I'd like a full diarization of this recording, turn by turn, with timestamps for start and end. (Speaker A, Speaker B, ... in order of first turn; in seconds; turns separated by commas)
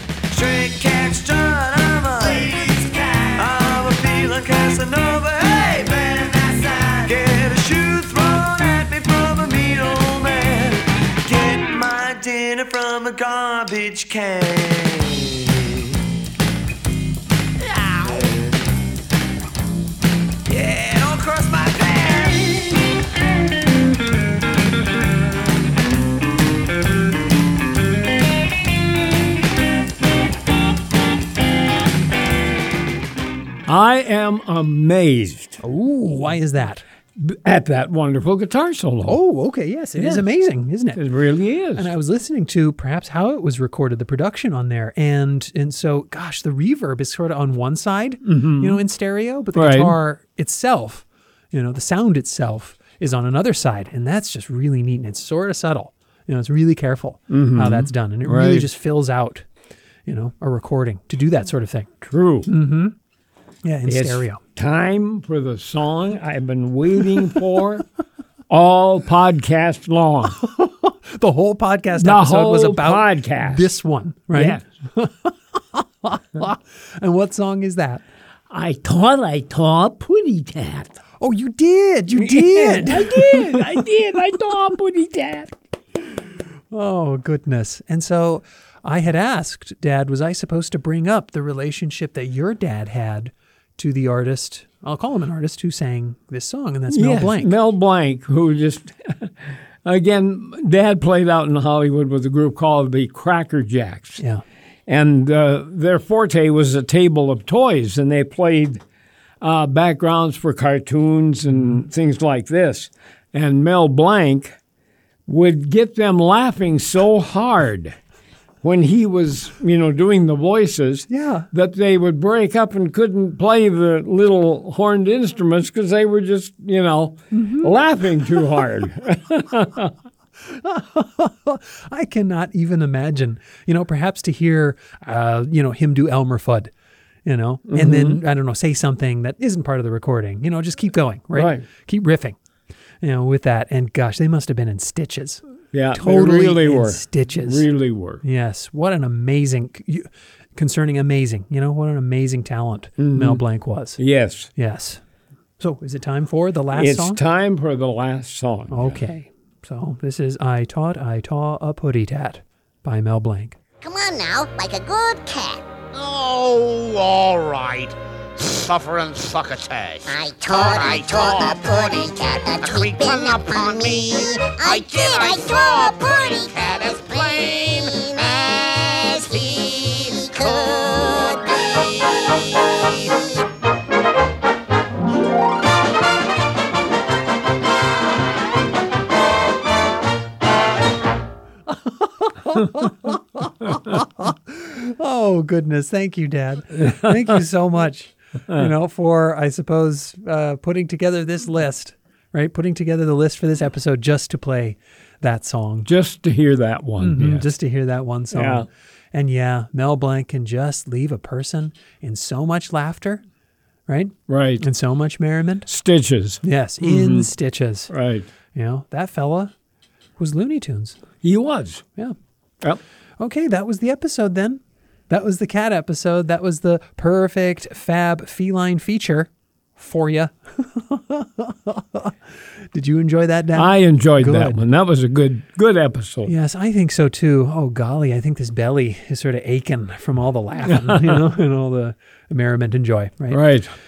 Speaker A: 0.3-15.9, Speaker A: 17.8-18.4, Speaker A: 20.5-22.7, Speaker B: 33.7-35.6, Speaker C: 35.6-36.8, Speaker B: 37.2-39.2, Speaker C: 39.1-41.0, Speaker B: 40.0-40.2, Speaker B: 41.0-41.9, Speaker C: 41.8-59.5, Speaker B: 48.2-48.8, Speaker B: 49.5-50.0, Speaker B: 57.3-58.7, Speaker C: 60.1-61.9, Speaker B: 62.0-62.5, Speaker C: 62.5-62.9, Speaker C: 63.6-64.4, Speaker B: 63.9-67.9, Speaker B: 68.5-70.4, Speaker C: 70.4-78.0, Speaker B: 72.0-73.7, Speaker B: 74.3-74.6, Speaker B: 78.5-81.0, Speaker C: 81.2-83.9, Speaker B: 82.2-85.5, Speaker C: 86.7-97.5, Speaker B: 96.9-104.2, Speaker B: 104.9-108.8, Speaker B: 109.4-114.6, Speaker B: 115.3-118.0, Speaker B: 118.6-129.9, Speaker C: 121.1-121.5, Speaker C: 127.3-127.7, Speaker C: 130.4-136.7, Speaker C: 137.3-142.4, Speaker B: 137.7-138.2, Speaker B: 141.3-141.7, Speaker C: 143.0-145.4, Speaker B: 145.7-148.2, Speaker C: 145.9-147.7, Speaker C: 148.2-154.0, Speaker B: 153.0-153.4, Speaker B: 154.0-154.5, Speaker C: 154.6-155.0, Speaker C: 155.6-157.2, Speaker B: 156.7-159.0, Speaker C: 158.7-163.6, Speaker D: 163.8-165.7, Speaker E: 165.9-181.7, Speaker D: 170.1-177.3, Speaker D: 177.8-178.3, Speaker D: 179.3-179.6, Speaker D: 180.2-181.4, Speaker C: 191.7-205.9, Speaker B: 196.8-197.3, Speaker B: 205.8-207.5, Speaker C: 207.0-213.2, Speaker B: 208.3-208.7, Speaker C: 213.9-215.7, Speaker B: 214.3-214.6, Speaker B: 215.7-217.3, Speaker C: 216.4-217.9, Speaker B: 217.9-218.3, Speaker C: 218.5-219.5, Speaker C: 220.2-221.0, Speaker B: 221.2-221.8, Speaker C: 223.2-232.1, Speaker C: 232.7-234.6, Speaker B: 233.5-236.3, Speaker C: 236.3-243.4, Speaker B: 240.7-241.2, Speaker B: 243.3-243.7